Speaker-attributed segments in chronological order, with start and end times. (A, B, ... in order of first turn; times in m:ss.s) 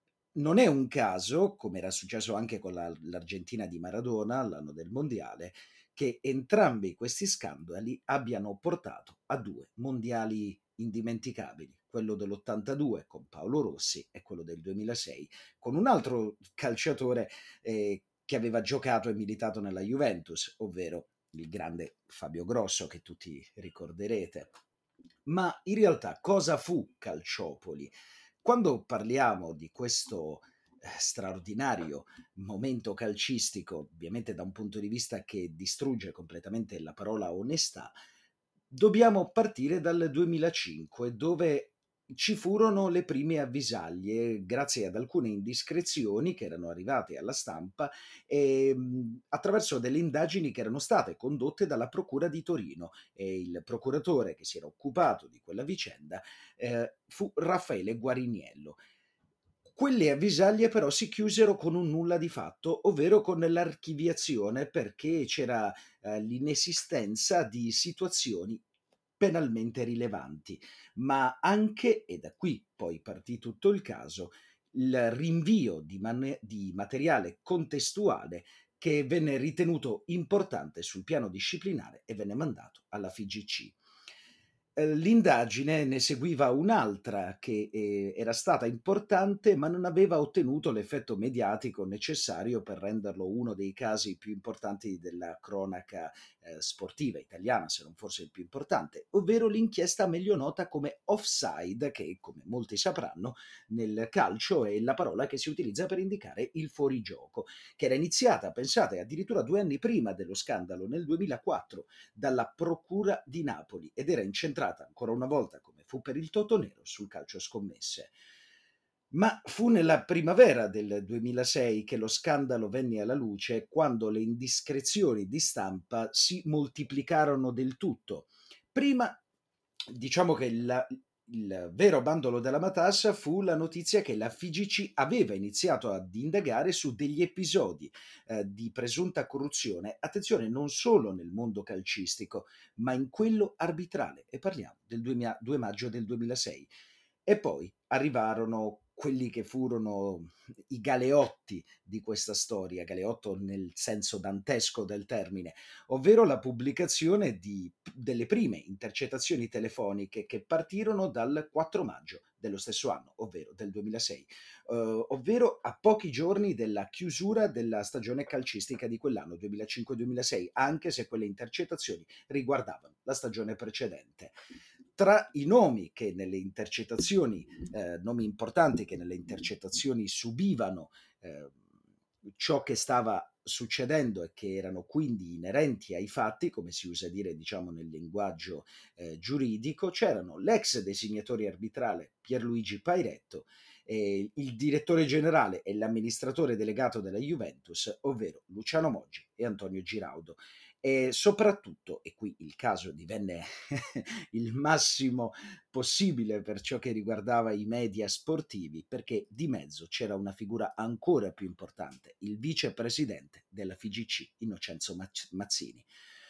0:00.4-0:24.6 A
0:25.3-0:38.0 A
0:38.7-0:58.8 A
0:59.8-1:08.6 A
1:09.2-1:23.8 A
1:24.8-1:58.1 A
1:59.1-2:09.2 A
2:09.9-2:26.7 A
2:27.3-2:54.4 A
2:55.0-3:01.6 A
3:02.4-3:35.9 A